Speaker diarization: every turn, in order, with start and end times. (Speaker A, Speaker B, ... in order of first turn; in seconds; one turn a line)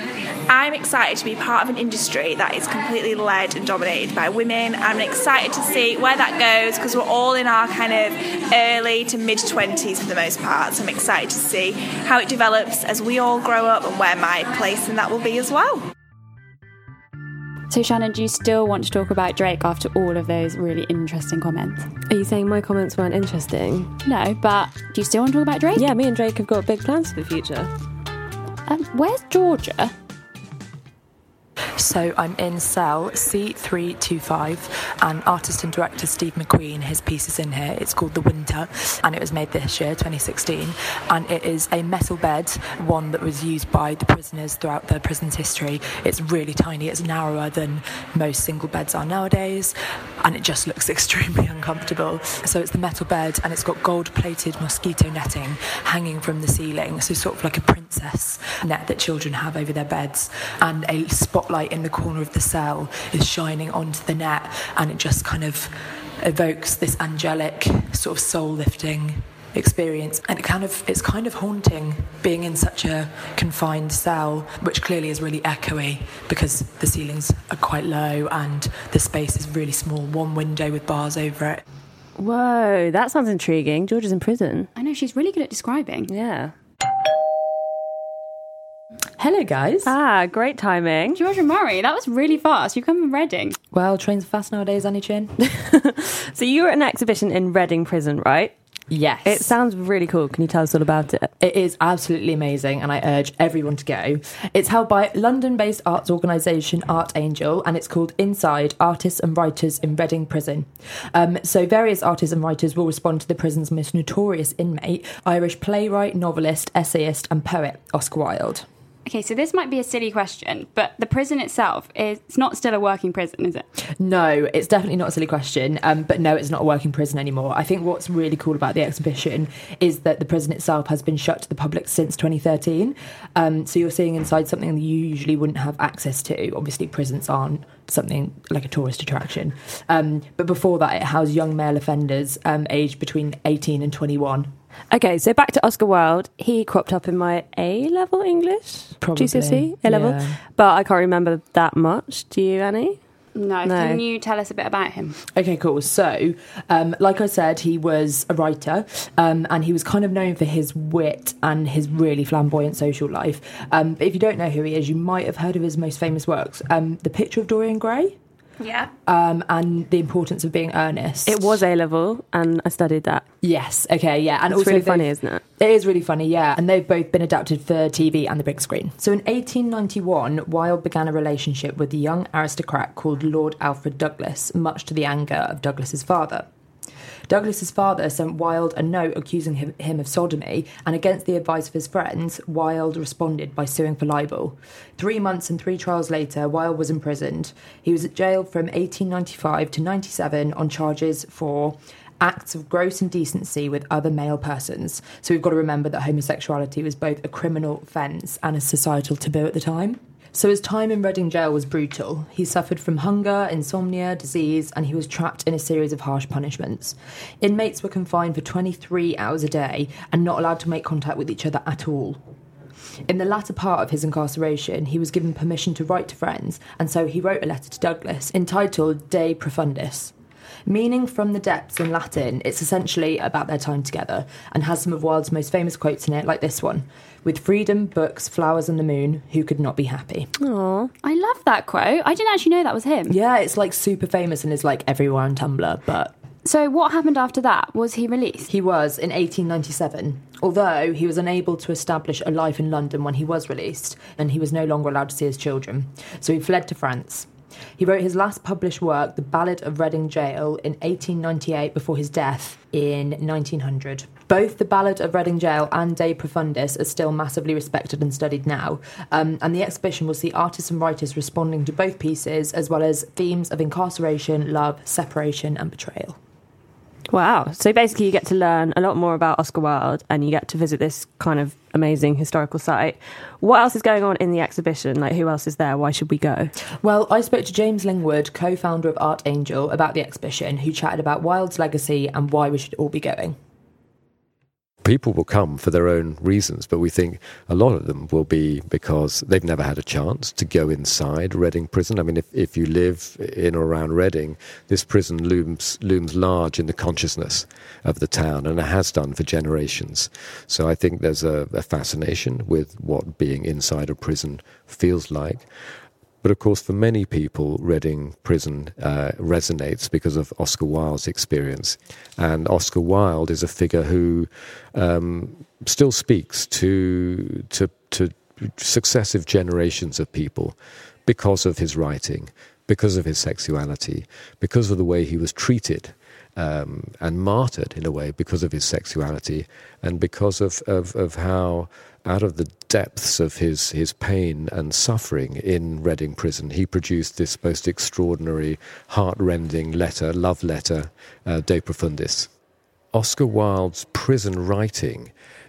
Speaker A: 0.5-15.8
Speaker B: 17.7-21.9
Speaker C: 22.1-23.9
Speaker B: 24.1-25.9
Speaker C: 25.8-27.7
Speaker B: 28.7-29.9
Speaker D: 31.8-81.6
Speaker C: 82.2-84.7
Speaker B: 84.8-86.1
Speaker C: 86.1-86.5
Speaker E: 89.2-89.9
Speaker C: 89.8-91.2
Speaker B: 91.2-93.6
Speaker E: 93.7-95.3
Speaker C: 96.3-98.5
Speaker E: 98.9-99.5
Speaker C: 99.2-101.3
Speaker E: 101.4-118.7
Speaker B: 119.1-123.7
Speaker E: 124.0-144.5
Speaker C: 144.9-153.0
Speaker E: 149.0-150.4
Speaker B: 153.3-155.2
Speaker C: 153.6-154.0
Speaker E: 155.3-168.2
Speaker B: 168.6-168.9
Speaker E: 169.1-171.6
Speaker C: 171.3-173.2
Speaker E: 173.4-186.5
Speaker C: 174.5-175.4
Speaker E: 187.3-222.2
Speaker E: 223.1-230.1
Speaker E: 230.7-240.3
Speaker C: 240.4-240.9
Speaker B: 241.0-243.2
Speaker E: 243.1-246.1
Speaker B: 246.4-248.5
Speaker E: 248.5-276.2
Speaker C: 277.1-286.5
Speaker E: 286.8-293.4
Speaker F: 294.8-315.5
Speaker F: 316.2-352.3
Speaker F: 352.9-355.1